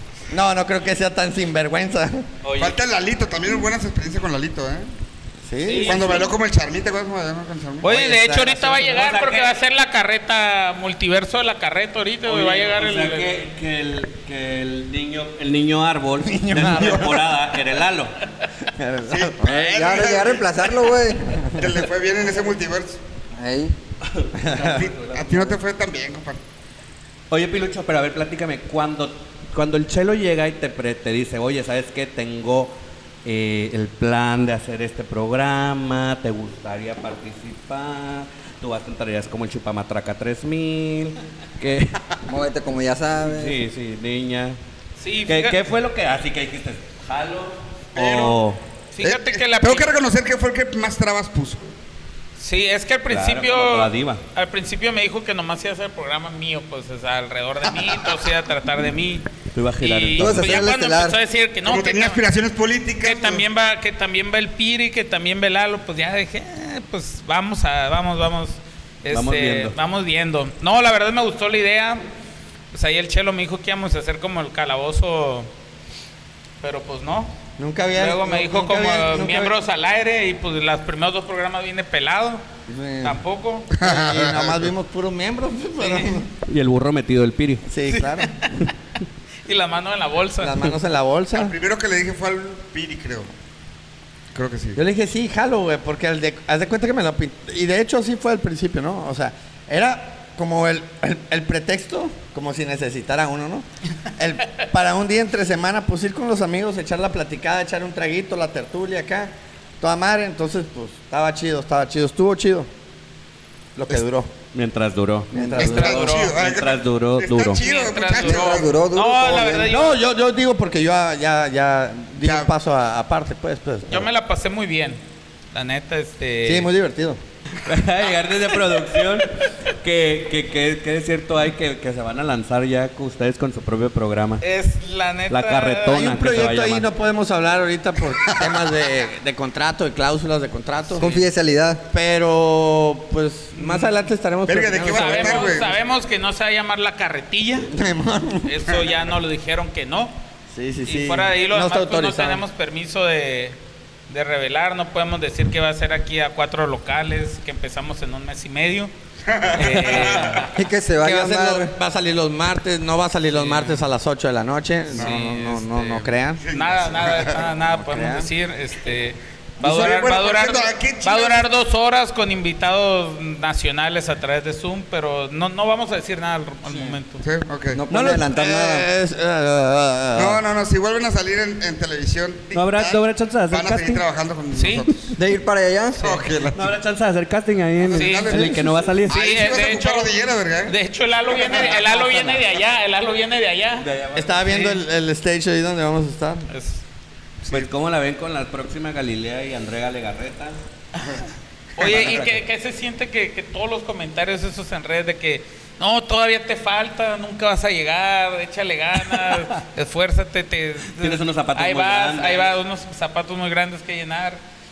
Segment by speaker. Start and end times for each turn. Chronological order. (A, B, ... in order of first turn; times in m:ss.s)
0:00.3-0:02.3 A
0:02.4-0:02.8 B
0:02.6-0:04.9 C
0:05.4-0:06.1 A
0:05.6-0:06.3 D
0:05.8-0:07.9 C
0:07.8-0:13.4 D
0:07.9-0:08.8 A
0:08.7-0:09.5 B
0:12.2-0:18.2 B
0:16.2-0:17.2 A
0:16.7-0:17.0 C
0:18.6-0:19.5 A
0:19.0-0:20.7 C
0:19.4-0:21.5 E
0:21.5-0:23.0 C
0:23.3-0:23.7 E
0:24.0-0:25.6 B
0:24.3-0:24.8 A
0:24.6-0:26.4 C
0:27.3-0:42.0 B
0:42.3-0:43.6 E
0:43.3-0:44.6 B
0:45.0-0:45.6 D
0:45.3-0:48.6 B
0:48.0-0:48.4 C
0:48.9-0:49.9 D
0:49.0-0:51.6 C
0:52.4-0:59.2 D
0:53.1-0:54.2 B
0:59.5-1:00.6 B
0:59.8-1:02.2 D
1:00.2-1:01.2 E
1:01.6-1:03.4 C
1:03.0-1:12.0 D
1:09.1-1:09.7 B
1:12.7-1:15.5 D
1:16.6-1:17.3 D
1:17.6-1:19.5 A
1:17.9-1:22.4 D
1:22.7-1:23.2 A
1:23.0-1:23.7 D
1:23.8-1:24.7 C
1:23.8-1:26.3 A
1:25.8-1:26.1 D
1:26.4-1:27.6 B
1:27.7-1:28.3 A
1:27.9-1:28.7 D
1:29.4-1:30.7 D
1:30.4-1:31.5 A
1:31.3-1:33.3 C
1:34.3-1:34.8 C
1:34.8-1:43.6 A
1:44.2-1:52.7 A
1:53.8-1:54.3 A
1:54.5-1:57.6 B
1:55.3-1:56.0 A
1:55.6-1:56.3 D
1:55.6-1:58.7 C
1:57.6-2:00.0 D
1:58.2-1:59.7 E
1:59.6-2:04.1 A
2:02.2-2:02.5 C
2:03.9-2:05.0 D
2:05.5-2:06.7 D
2:06.4-2:07.2 A
2:07.6-2:14.4 B
2:14.4-2:16.0 D
2:15.3-2:16.8 B
2:15.9-2:21.1 A
2:18.3-2:18.6 C
2:21.0-2:21.8 E
2:21.9-2:25.6 A
2:23.5-2:24.0 D
2:24.4-2:25.7 C
2:24.9-2:27.7 D
2:27.7-2:28.5 A
2:28.4-2:30.2 D
2:30.5-2:32.4 A
2:30.8-2:33.6 D
2:34.1-2:38.9 D
2:39.2-2:40.4 C
2:39.5-2:40.5 D
2:39.6-2:40.4 B
2:40.5-2:41.7 E
2:41.0-2:46.4 A
2:43.3-2:43.8 D
2:44.9-2:57.2 D
2:44.9-2:45.2 C
2:46.4-2:47.4 C
2:47.6-2:48.3 A
2:49.6-2:51.5 C
2:56.7-2:57.0 A
2:57.2-2:57.8 C
2:57.7-2:58.9 E
2:57.9-3:00.4 A
3:00.1-3:05.1 C
3:02.5-3:04.0 B
3:04.5-3:04.9 D
3:05.2-3:06.1 E
3:06.0-3:06.7 C
3:06.5-3:09.2 B
3:07.8-3:10.7 C
3:07.9-3:08.5 D
3:09.1-3:10.1 D
3:10.7-3:13.8 D
3:11.5-3:11.7 C
3:13.8-3:14.8 B
3:14.1-3:16.5 A
3:16.5-3:16.8 D
3:17.5-3:20.6 B
3:21.8-3:34.4 D
3:21.8-3:22.4 B
3:31.0-3:32.5 B